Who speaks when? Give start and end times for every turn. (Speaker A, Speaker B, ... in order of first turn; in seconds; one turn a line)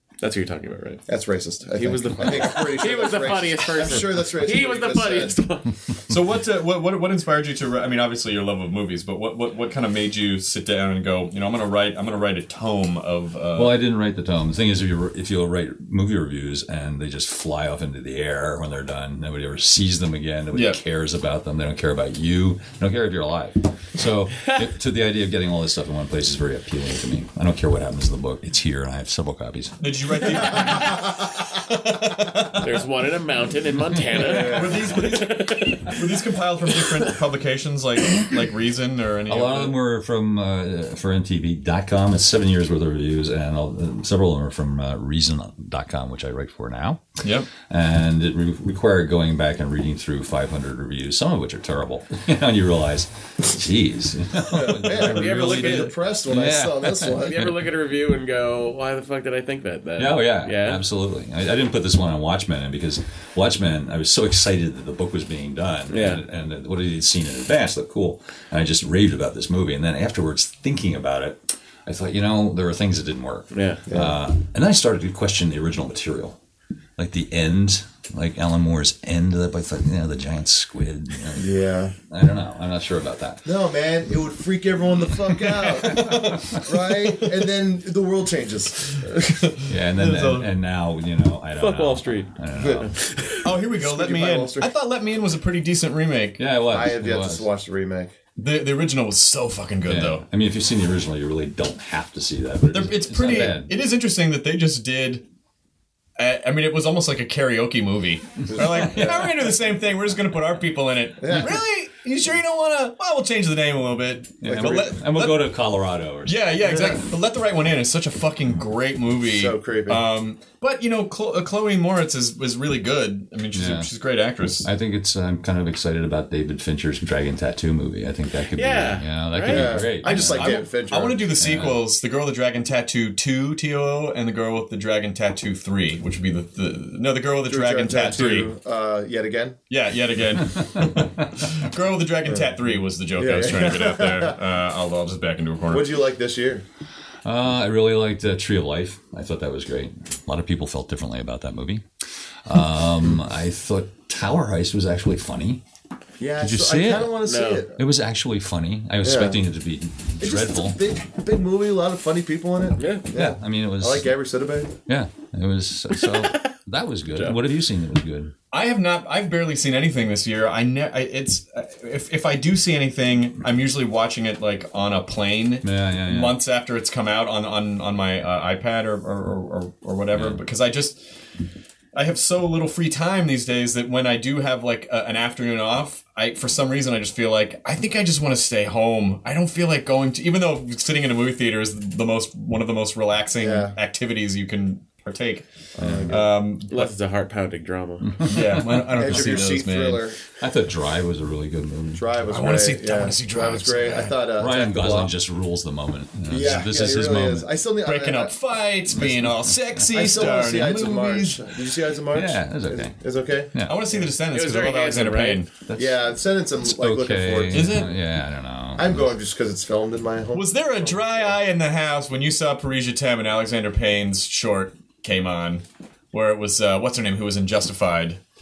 Speaker A: 0.2-1.0
Speaker B: 1.1-5.4
Speaker A: 1.8-5.8
Speaker C: 6.1-13.8
Speaker D: 13.5-30.6
Speaker C: 20.5-20.8
Speaker C: 29.8-32.7
Speaker A: 32.6-36.0
Speaker B: 34.2-34.9
Speaker C: 34.2-39.8
Speaker D: 39.3-57.5
Speaker C: 47.2-47.5
Speaker B: 54.5-57.4
Speaker A: 54.9-55.9
Speaker A: 57.2-60.8
Speaker D: 60.0-76.4
Speaker A: 65.9-66.2
Speaker A: 73.5-73.8
Speaker B: 73.9-74.2
Speaker D: 77.0-81.5
Speaker B: 81.4-81.9
Speaker D: 82.1-83.5
Speaker B: 83.4-89.4
Speaker D: 85.9-86.6
Speaker C: 86.1-86.4
Speaker D: 89.7-92.9
Speaker C: 89.9-90.5
Speaker A: 91.6-93.5
Speaker B: 92.6-92.8
Speaker C: 93.4-96.4
Speaker B: 93.8-94.7
Speaker D: 96.4-97.4
Speaker B: 96.7-98.1
Speaker C: 98.4-100.2
Speaker D: 99.9-103.7
Speaker C: 102.7-105.2
Speaker C: 106.2-115.5
Speaker B: 108.5-109.3
Speaker D: 108.7-109.1
Speaker B: 111.2-111.6
Speaker D: 114.4-116.8
Speaker B: 114.4-115.0
Speaker C: 116.2-124.7
Speaker B: 116.6-117.0
Speaker B: 119.3-120.0
Speaker D: 123.5-123.9
Speaker D: 124.6-130.6
Speaker A: 128.5-129.9
Speaker B: 129.5-131.2
Speaker C: 130.0-138.5
Speaker D: 131.4-131.8
Speaker B: 137.5-139.6
Speaker C: 139.7-145.9
Speaker D: 140.8-141.0
Speaker B: 143.2-144.3
Speaker B: 145.7-146.6
Speaker D: 147.2-151.8
Speaker D: 152.4-155.6
Speaker B: 156.2-157.8
Speaker D: 156.4-157.2
Speaker A: 157.2-157.6
Speaker D: 157.8-160.8
Speaker B: 159.0-159.4
Speaker B: 160.2-164.8
Speaker A: 162.8-163.1
Speaker D: 163.1-164.1
Speaker D: 164.9-168.3
Speaker A: 166.0-166.5
Speaker C: 168.5-181.0
Speaker D: 175.6-176.4
Speaker D: 180.1-180.4
Speaker C: 181.9-195.4
Speaker B: 193.4-193.8
Speaker B: 195.8-196.2
Speaker D: 195.8-196.2
Speaker C: 196.1-196.9
Speaker A: 196.7-198.2
Speaker D: 198.1-199.6
Speaker C: 198.3-200.1
Speaker B: 199.0-200.2
Speaker D: 200.4-202.1
Speaker B: 201.9-205.1
Speaker C: 202.3-204.3
Speaker D: 204.3-207.5
Speaker B: 206.3-208.3
Speaker C: 207.8-211.5
Speaker D: 208.9-209.8
Speaker B: 209.9-213.5
Speaker D: 212.1-213.0
Speaker D: 213.5-214.0
Speaker C: 213.6-215.5
Speaker A: 214.3-215.5
Speaker D: 215.7-219.1
Speaker B: 215.8-217.8
Speaker C: 217.5-217.9
Speaker B: 218.8-221.3
Speaker C: 220.3-228.2